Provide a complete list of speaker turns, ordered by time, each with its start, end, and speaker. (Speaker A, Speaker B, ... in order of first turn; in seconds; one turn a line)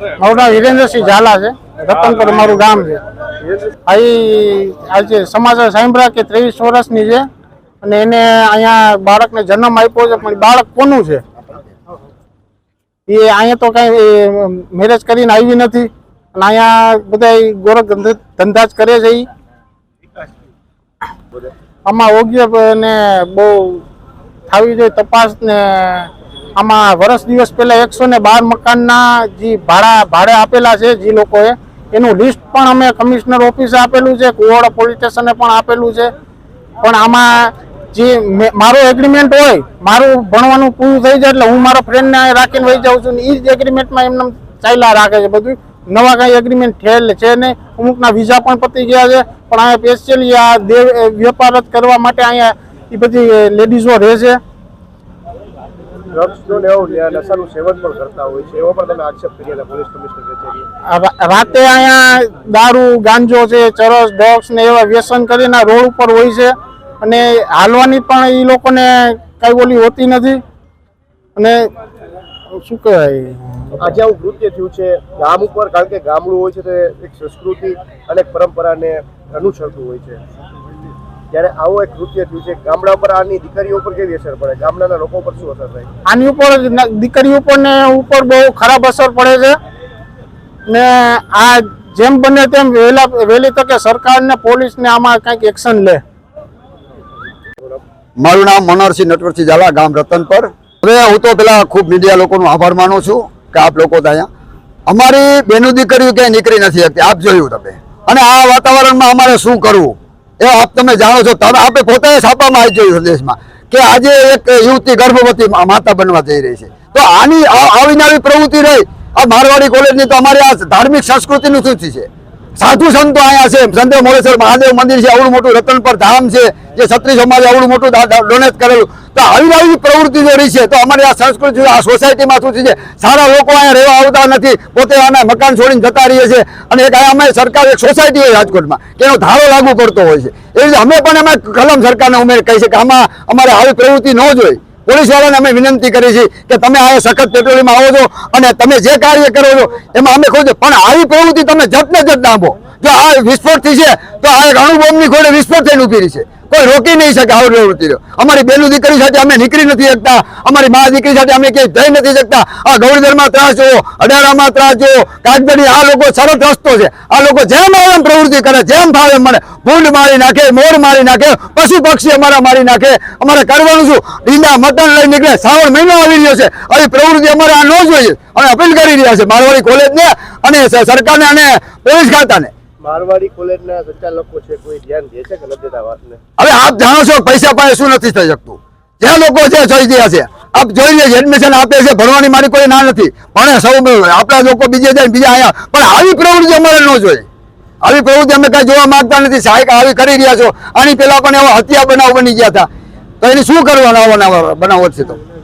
Speaker A: 0.2-3.0
Speaker B: 3.4-3.8
Speaker A: 3.9-7.2
Speaker A: 7.8-11.2
Speaker A: 13.1-19.3
Speaker A: 21.9-23.8
Speaker A: 24.5-36.1
Speaker A: 36.8-54.4
Speaker B: 56.1-60.6
Speaker A: 60.9-70.4
Speaker A: 71.4-71.7
Speaker A: 72.5-73.8
Speaker B: 73.8-80.2
Speaker B: 81.3-85.9
Speaker A: 86.1-89.5
Speaker A: 90.7-96.0
Speaker C: 98.2-104.3
Speaker C: 104.9-182.5
Speaker B: 182.8-186.2
Speaker C: 186.4-197.3
Speaker C: 197.8-202.7
Speaker C: 203.2-205.2